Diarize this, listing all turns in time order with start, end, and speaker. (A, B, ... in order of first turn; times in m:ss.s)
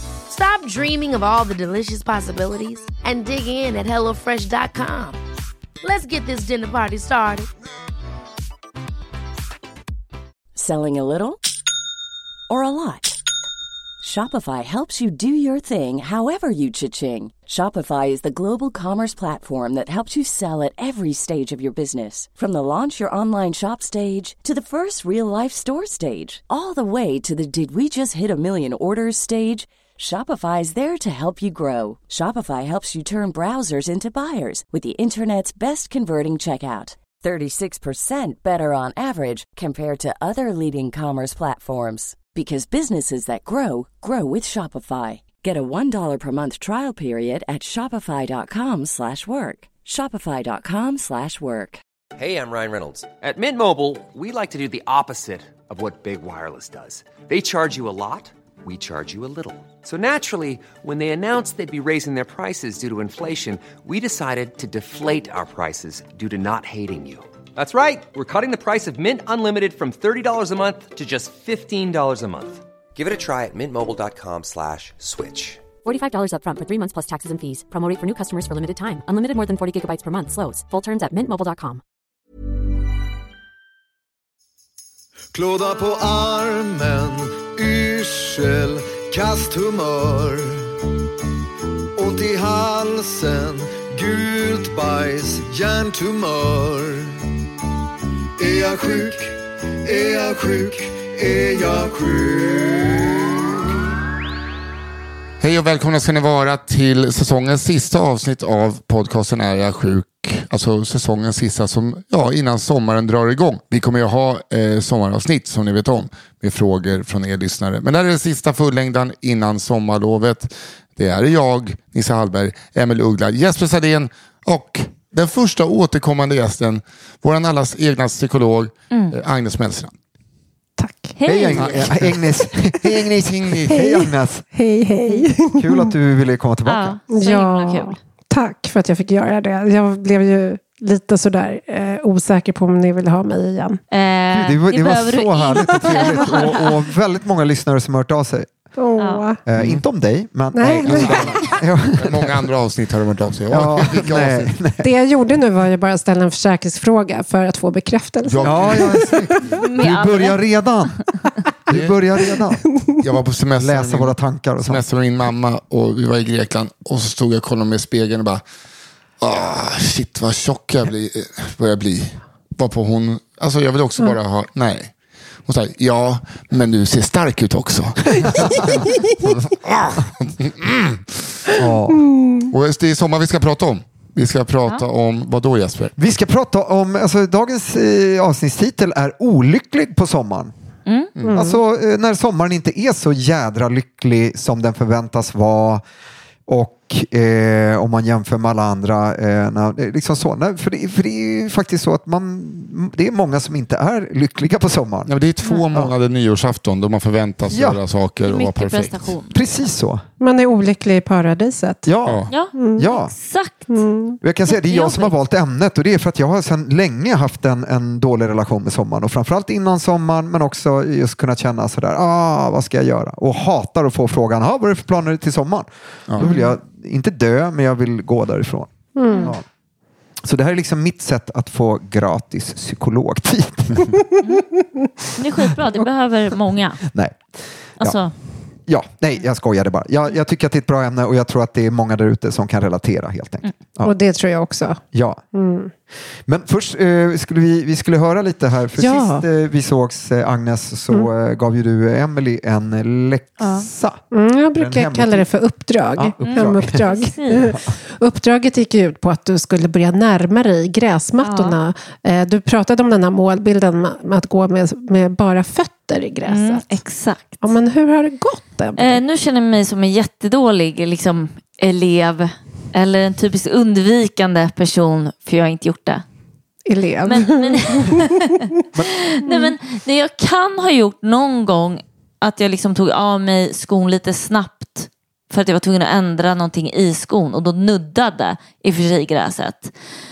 0:00.3-0:05.2 A
0:05.8-0:07.5 A
0:10.5-0:11.4 B
0:12.5-0:13.1 B
0:14.0-0:51.8 B
0:52.2-1:15.6 C
1:15.8-1:21.8 D
1:25.3-1:30.7 E
1:32.0-1:37.1 E
1:38.4-1:43.4 E
1:45.4-2:09.9 F
2:10.8-2:11.1 G
2:11.2-2:11.9 H
2:11.2-2:14.4 I
2:11.5-2:12.3 F
2:13.1-2:13.8 F
2:13.7-2:15.9 G
2:15.6-2:17.0 I
2:16.6-2:18.0 H
2:17.1-2:23.8 G
2:23.9-2:26.8 H
2:24.3-2:28.5 I
2:28.8-2:29.4 G
2:29.0-2:29.2 H
2:29.5-2:32.4 I
2:29.6-2:29.8 F
2:30.5-2:31.3 G
2:30.8-2:34.5 F
2:33.5-2:34.9 I
2:34.8-2:39.4 G
2:38.3-2:39.5 F
2:38.4-2:41.0 I
2:39.6-2:40.4 H
2:41.7-2:42.6 I
2:41.7-2:42.0 F
2:43.0-2:48.4 F
2:43.6-2:44.8 I
2:49.2-2:54.9 F
2:55.4-3:01.2 F
3:01.6-3:02.0 I
3:02.0-3:02.5 G
3:02.5-3:05.9 F
3:06.0-3:10.5 I
3:10.9-3:11.1 H
3:11.2-3:11.4 F
3:11.3-3:11.6 G
3:11.3-3:15.8 I
3:16.5-3:25.1 I
3:25.1-3:29.1 F
3:27.5-3:27.8 I
3:28.2-3:29.4 H
3:29.3-3:30.0 I
3:30.2-3:31.9 G
3:31.8-3:33.1 I
3:32.0-3:32.3 F
3:32.3-3:33.8 H
3:32.5-3:32.9 G
3:33.7-3:34.2 G
3:34.2-3:48.7 I
3:34.5-3:35.1 H
3:46.2-3:46.5 G
3:49.0-3:49.3 G
3:50.2-3:53.9 I
3:55.2-3:56.8 H
3:56.8-3:57.2 I
3:57.8-3:58.1 H
3:58.7-4:03.9 I
4:03.8-4:04.8 G
4:04.9-4:05.2 I
4:05.3-4:05.7 G
4:06.2-4:14.0 I
4:08.8-4:09.2 G
4:13.4-4:13.7 H
4:14.1-4:26.8 G
4:14.6-4:15.3 I
4:15.9-4:16.8 I
4:16.2-4:17.5 H
4:21.2-4:21.6 H
4:26.3-4:27.5 H
4:27.4-4:29.0 G
4:28.8-4:36.0 H
4:36.6-4:38.3 G
4:37.0-4:49.7 H
4:39.2-4:39.5 G